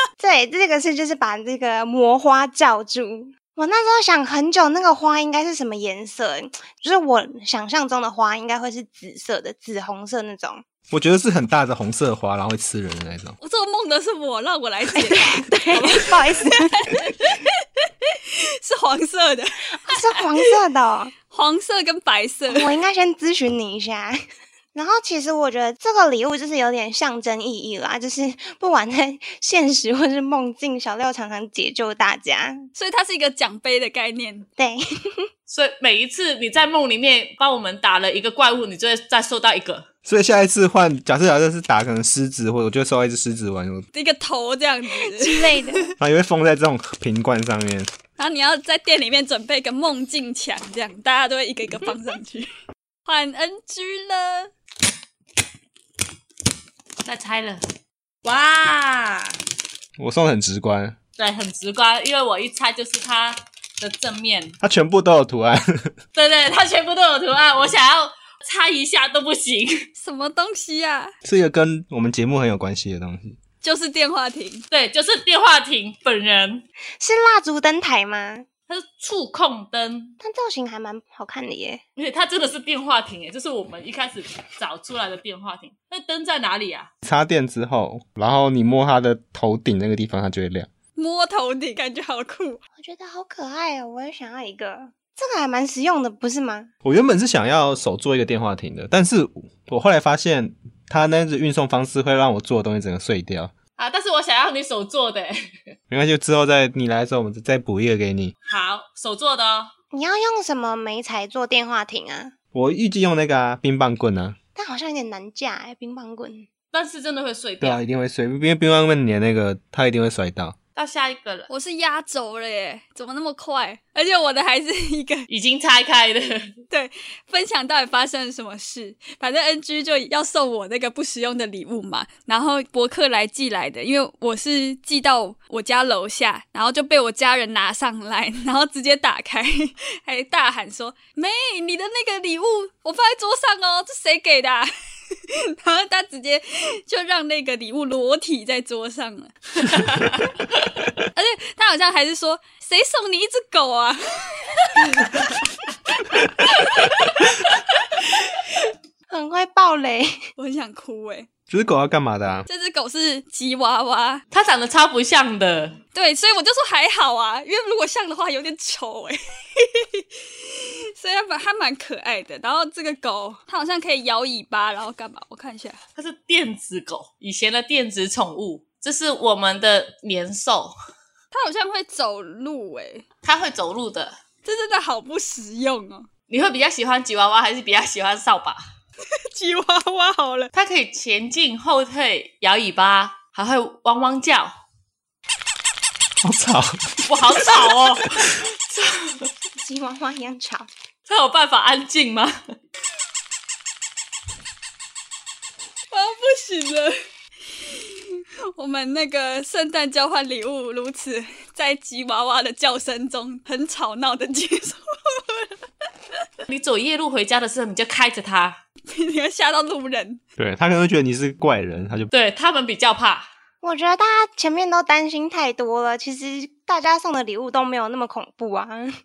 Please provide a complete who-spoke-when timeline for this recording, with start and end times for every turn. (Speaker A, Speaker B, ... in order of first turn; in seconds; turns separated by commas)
Speaker A: 0.2-10.6, Speaker B: 10.9-13.4, Speaker C: 13.4-17.5, Speaker A: 14.9-17.0, Speaker C: 18.6-20.2, Speaker A: 19.9-21.1, Speaker C: 21.3-22.7, Speaker A: 22.5-24.2, Speaker A: 24.8-32.7, Speaker C: 32.8-34.5, Speaker A: 34.6-35.3, Speaker D: 35.5-39.9, Speaker B: 40.1-43.9, Speaker C: 43.9-45.9, Speaker A: 45.0-45.9, Speaker B: 46.0-47.9, Speaker C: 48.2-52.5, Speaker C: 53.0-54.5, Speaker D: 57.0-57.6, Speaker D: 58.2-59.4, Speaker B: 60.0-61.0, Speaker D: 61.2-64.6, Speaker B: 64.6-65.9, Speaker D: 66.2-69.9, Speaker C: 70.0-71.1, Speaker B: 71.2-73.4, Speaker C: 73.6-74.6, Speaker D: 74.7-76.7, Speaker A: 77.0-78.5, Speaker D: 78.7-80.2, Speaker A: 80.2-81.8, Speaker D: 82.0-86.9, Speaker B: 87.0-90.7, Speaker C: 91.0-92.6, Speaker A: 92.8-96.7, Speaker B: 96.8-103.5, Speaker D: 103.8-105.7, Speaker B: 105.9-108.3, Speaker D: 108.5-109.7, Speaker A: 109.9-112.3, Speaker B: 112.5-114.4, Speaker A: 114.5-116.5, Speaker D: 116.7-117.8, Speaker B: 117.6-120.6, Speaker D: 120.8-121.5, Speaker C: 121.5-125.3, Speaker D: 125.3-126.5, Speaker C: 126.7-150.3, Speaker C: 151.1-155.3, Speaker C: 156.5-157.2, Speaker A: 159.1-160.2, Speaker C: 160.4-161.3, Speaker B: 161.5-162.5, Speaker C: 162.5-164.2, Speaker D: 164.3-165.8, Speaker C: 165.9-175.8, Speaker D: 176.0-180.7, Speaker C: 181.3-183.1, Speaker D: 183.2-184.2, Speaker C: 184.4-186.1, Speaker D: 186.3-188.6, Speaker C: 189.3-190.5, Speaker D: 190.5-194.5, Speaker B: 196.2-198.0, Speaker D: 197.1-199.3, Speaker A: 199.6-200.7, Speaker D: 201.1-202.6, Speaker C: 205.9-207.0, Speaker C: 207.5-215.6, Speaker D: 216.5-218.6, Speaker C: 218.9-220.2, Speaker B: 220.4-222.1, Speaker D: 222.1-223.3, Speaker A: 223.6-228.9